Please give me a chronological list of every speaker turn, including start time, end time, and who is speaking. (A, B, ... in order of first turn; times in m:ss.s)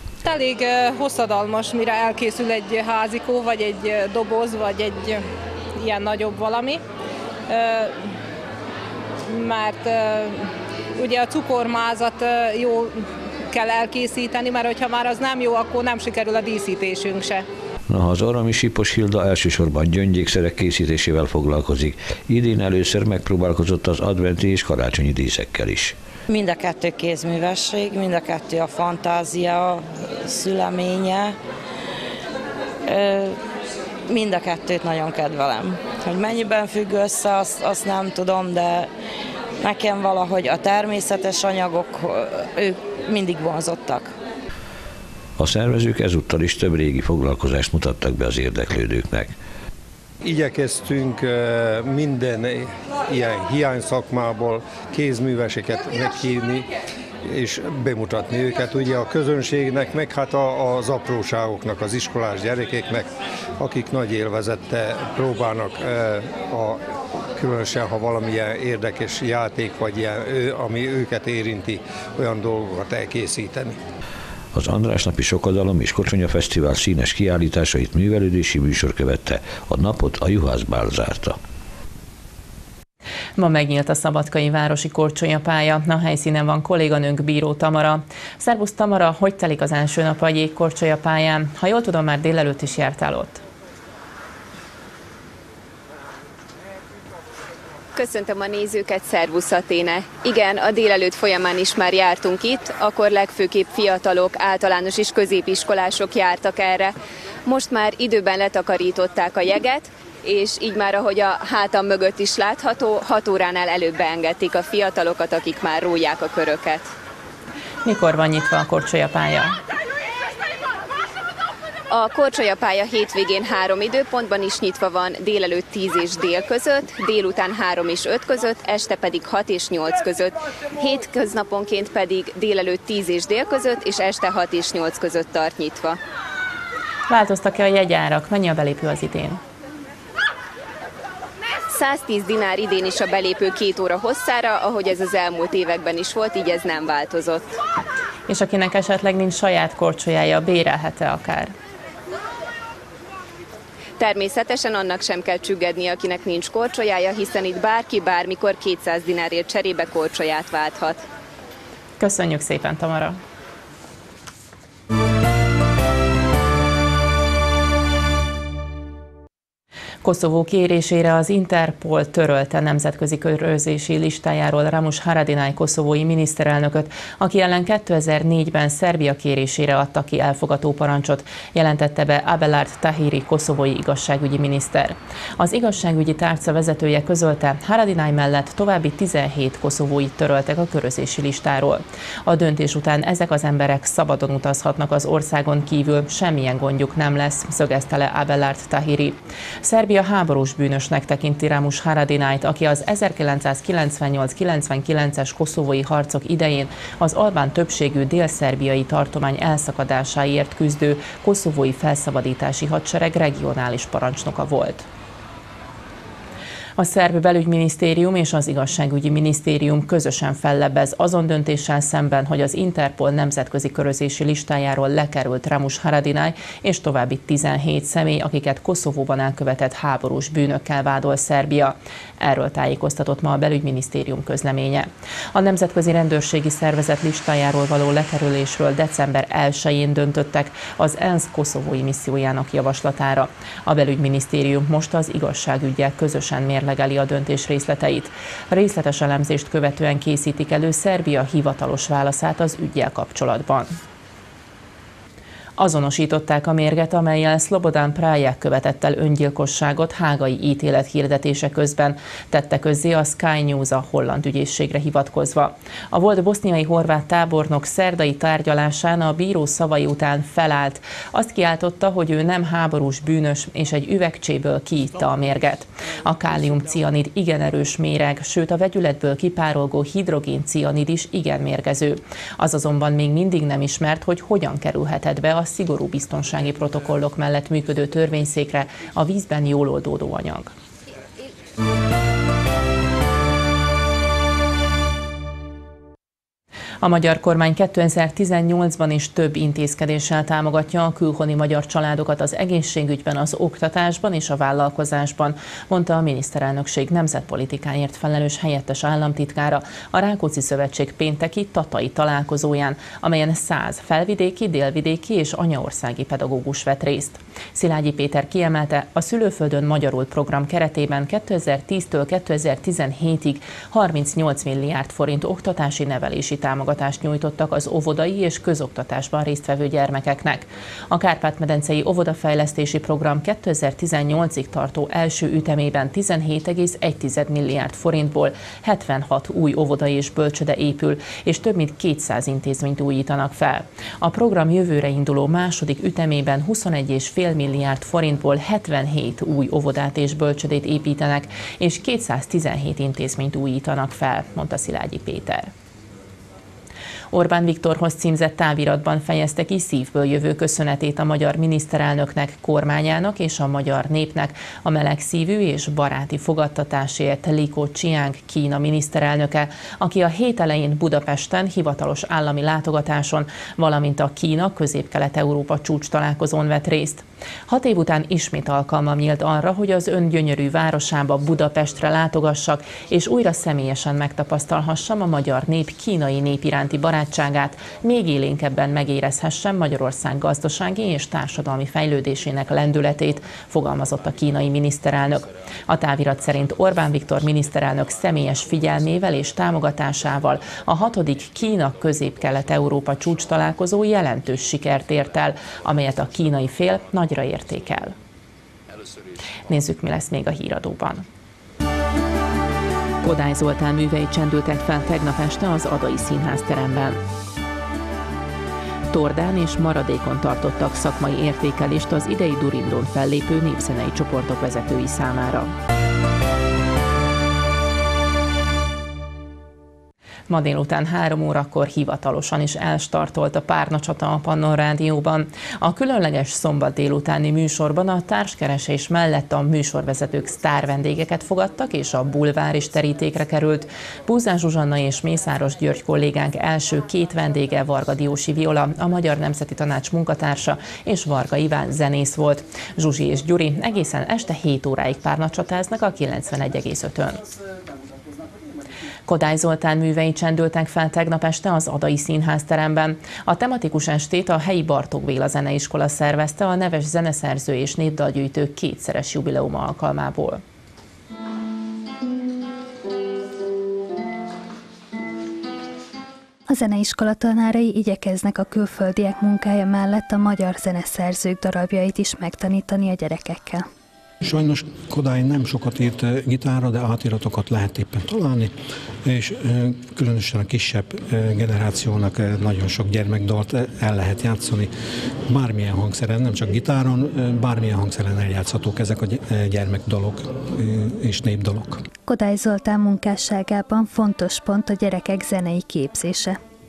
0:00.2-0:05.2 A
0:05.8-0:06.8 A
0:07.5-0:07.9 A
0:09.3-0:10.5 A
0:11.0-0:13.0 A
0:13.5-0:17.4 A
0:17.9-0:26.0 B
0:26.3-0:31.4 C
0:32.9-0:33.4 C
0:34.1-0:38.9 C
0:39.6-0:44.2 C
0:45.4-0:49.3 B
0:50.2-0:56.7 D
0:57.2-1:06.8 D
1:07.4-1:13.8 D
1:14.5-1:21.4 B
1:23.4-1:33.4 E
1:38.0-1:46.9 F
1:47.5-1:56.9 F
1:57.8-1:59.6 E
2:01.9-2:16.0 F
2:17.1-2:19.4 E
2:21.7-2:27.5 F
2:28.3-2:31.5 E
2:34.0-2:41.0 F
2:42.0-2:43.2 E
2:50.0-3:34.9 E
3:36.8-4:13.8 E
4:15.6-4:50.5 E
4:56.8-5:55.5 E
5:57.1-6:48.0 E
6:49.5-6:51.0 E
6:53.0-6:57.0 E
6:58.9-7:05.5 E
7:10.3-7:37.2 E
7:39.1-7:50.4 E
7:56.5-8:03.6 G
8:04.2-8:14.7 H
8:15.3-8:21.8 H
8:22.1-8:26.4 G